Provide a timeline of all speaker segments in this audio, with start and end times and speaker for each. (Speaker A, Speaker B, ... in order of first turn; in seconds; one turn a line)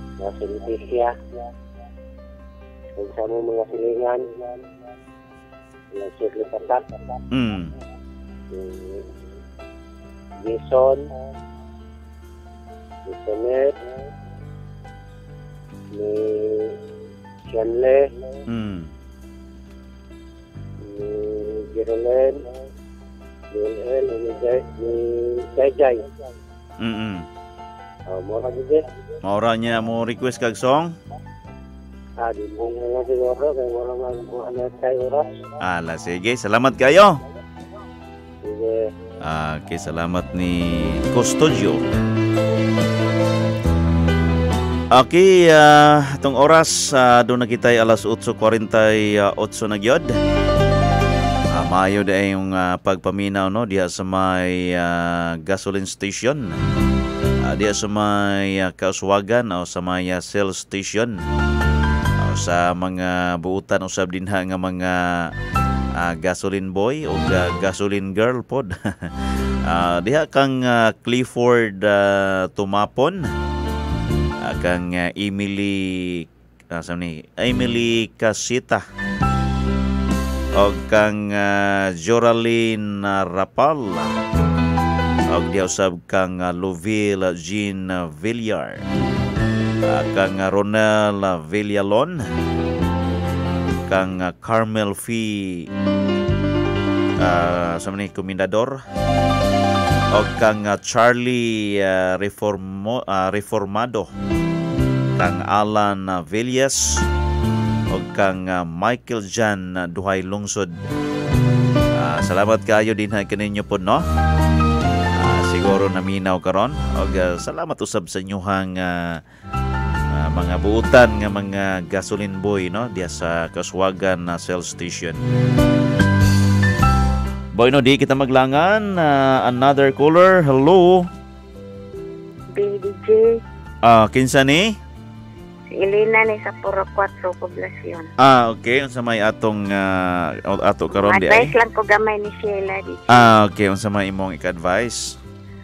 Speaker A: 0.2-1.1
Speaker A: 3.0-4.2
Speaker A: 5.9-6.8
Speaker B: 7.3-7.7
Speaker A: 8.5-9.0
Speaker A: 10.4-11.0
Speaker A: 13.1-13.6
Speaker A: 15.9-16.7
Speaker A: 17.5-18.0
Speaker B: 18.5-18.9
Speaker A: 20.8-22.4
Speaker A: 23.5-26.0
Speaker B: 26.8-27.3
Speaker A: 28.1-28.8
Speaker B: 29.2-30.9
Speaker A: 32.2-35.2
Speaker B: 35.6-37.1
Speaker A: 38.4-38.8
Speaker B: 39.2-41.8
Speaker B: 44.9-50.2
Speaker B: 51.5-56.6
Speaker B: 57.4-61.2
Speaker B: 62.2-65.3
Speaker B: 66.0-69.1
Speaker B: 69.7-73.3
Speaker B: 74.4-78.8
Speaker B: 80.6-84.1
Speaker B: 85.3-88.8
Speaker B: 89.9-92.2
Speaker B: 93.9-95.7
Speaker B: 97.2-98.8
Speaker B: 100.1-104.1
Speaker B: 105.2-107.0
Speaker B: 107.9-110.8
Speaker B: 112.0-114.0
Speaker B: 115.2-119.2
Speaker B: 120.1-125.2
Speaker B: 127.6-131.1
Speaker C: 132.6-133.3
Speaker B: 133.8-134.8
Speaker C: 135.7-138.1
Speaker B: 138.2-141.5
Speaker C: 140.9-143.2
Speaker B: 143.1-145.2